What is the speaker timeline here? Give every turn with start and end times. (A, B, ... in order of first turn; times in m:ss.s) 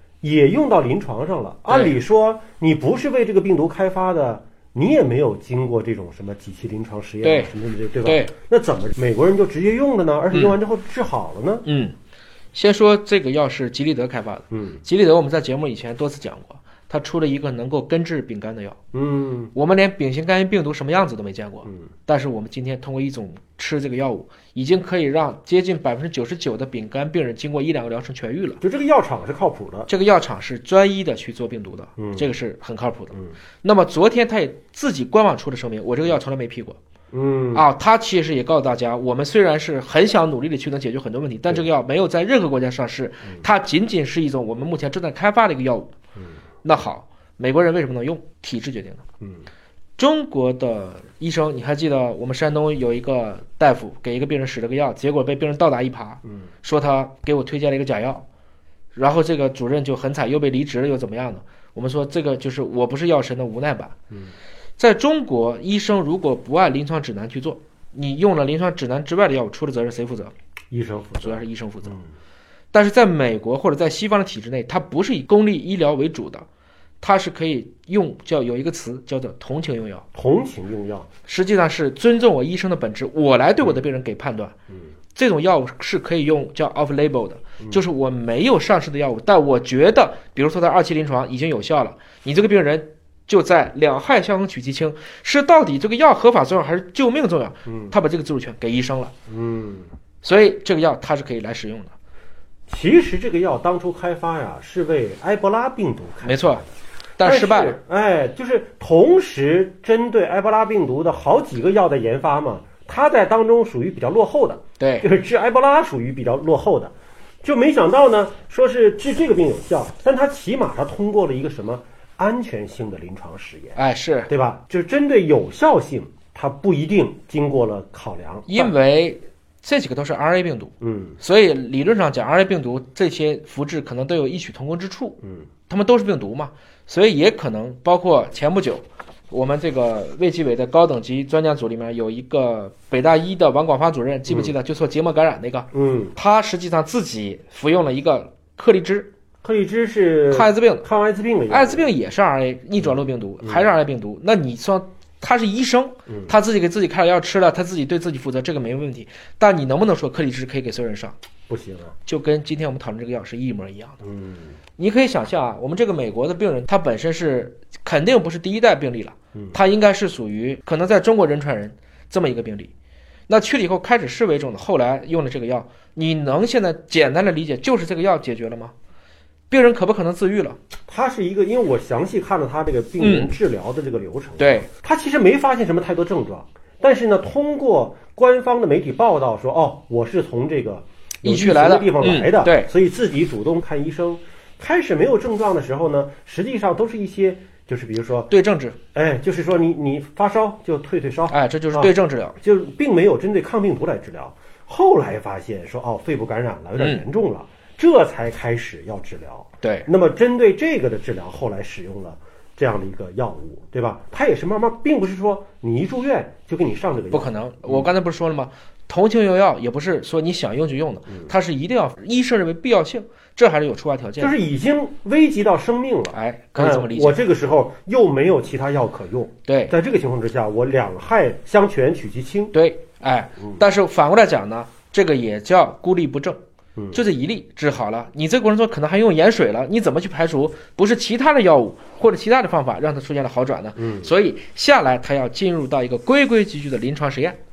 0:00.2-0:11.6 A
0:01.7-0:02.0 B
0:07.2-0:08.4 B
0:11.6-0:12.0 B
0:12.5-0:18.8 B
0:14.5-0:14.8 A
0:18.9-0:19.5 A
0:19.5-0:28.6 B
0:28.6-0:29.9 A
0:29.9-0:36.8 B
0:32.0-0:32.3 A
0:37.1-0:37.7 A
0:37.5-0:45.9 B
0:46.6-0:49.0 B
0:50.0-0:58.2 B
0:58.9-1:04.0 B
1:04.8-1:10.3 B
1:10.7-1:12.0 A
1:11.2-1:12.0 B
1:12.7-1:16.5 B
1:17.0-1:20.1 B
1:20.1-1:21.1 A
1:21.2-1:24.5 B
1:25.1-1:39.1 B
1:37.7-1:37.9 A
1:39.3-1:39.9 A
1:40.2-1:42.0 B
1:42.7-1:46.6 A
1:46.2-1:46.6 B
1:47.2-1:47.8 B
1:47.2-1:56.9 A
1:54.8-1:55.0 B
1:57.4-2:08.7 A
2:03.7-2:04.3 B
2:08.5-2:29.1 B
2:10.8-2:11.2 A
2:15.2-2:15.5 A
2:24.3-2:24.6 A
2:25.7-2:26.1 A
2:29.4-2:32.0 A
2:30.3-2:30.9 B
2:31.5-2:41.2 B
2:32.8-2:33.7 A
2:36.1-2:36.3 A
2:41.5-2:42.0 A
2:42.0-2:44.0 B
2:44.0-2:44.6 A
2:44.7-2:52.7 B
2:53.3-2:58.8 B
2:59.5-3:00.6 B
3:00.9-3:18.3 A
3:03.0-3:03.3 B
3:04.4-3:04.7 B
3:11.2-3:12.7 B
3:18.3-3:18.8 B
3:18.9-3:37.9 A
3:21.3-3:22.4 B
3:26.8-3:27.0 B
3:29.6-3:29.9 B
3:37.1-3:44.3 B
3:44.2-3:52.6 A
3:46.1-3:47.2 B
3:49.4-3:49.7 B
3:52.5-3:56.4 B
3:56.8-3:57.0 A
3:56.9-4:07.4 B
4:03.8-4:04.1 A